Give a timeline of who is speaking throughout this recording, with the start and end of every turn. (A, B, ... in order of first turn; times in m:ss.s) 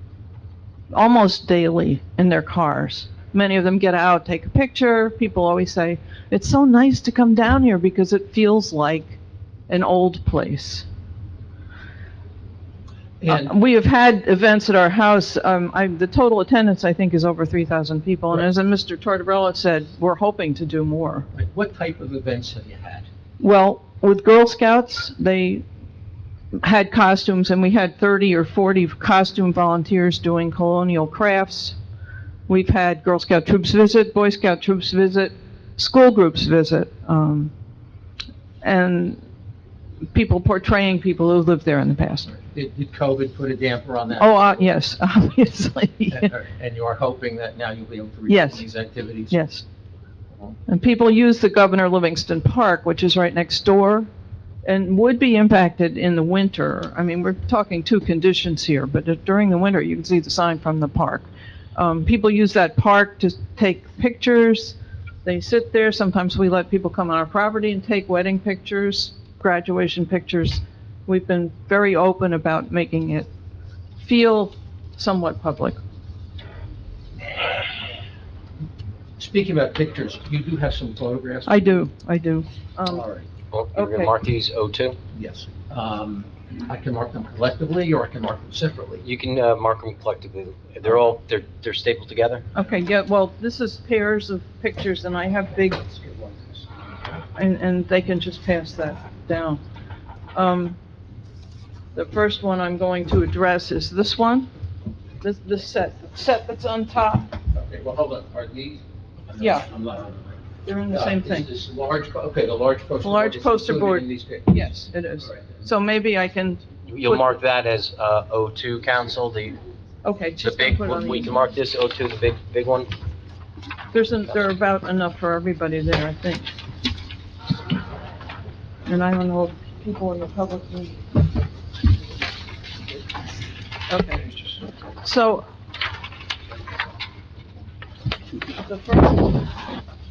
0:00.9-0:09.2 A
0:09.7-0:10.8 A
0:13.2-0:13.5 B
0:13.3-0:21.3 A
0:21.3-0:23.1 B
0:23.4-0:25.6 A
0:26.5-0:31.8 A
0:32.5-0:37.5 A
0:38.6-0:39.2 A
0:40.1-0:42.3 A
0:42.3-0:44.6 B
0:44.2-0:46.3 A
0:46.1-0:49.4 B
0:48.3-0:48.6 A
0:49.3-0:49.6 A
0:50.7-0:54.1 A
0:54.6-1:13.3 A
1:14.0-1:15.8 A
1:19.2-1:21.8 B
1:21.5-1:23.0 A
1:22.9-1:23.3 B
1:23.5-1:25.0 C
1:23.7-1:24.1 A
1:25.1-1:29.0 B
1:29.0-1:32.4 C
1:32.5-1:35.9 A
1:36.0-1:36.6 B
1:37.3-1:39.6 A
1:40.3-1:40.8 A
1:41.9-1:44.5 A
1:45.2-1:47.3 A
1:47.5-1:55.6 B
1:49.4-1:49.7 A
1:50.6-1:51.5 A
1:53.0-1:57.3 A
1:56.8-1:59.6 C
2:00.0-2:01.5 A
2:00.4-2:02.9 C
2:03.9-2:06.5 A
2:08.8-2:11.0 A
2:13.9-2:14.4 A
2:15.0-2:15.4 A
2:18.6-2:19.5 A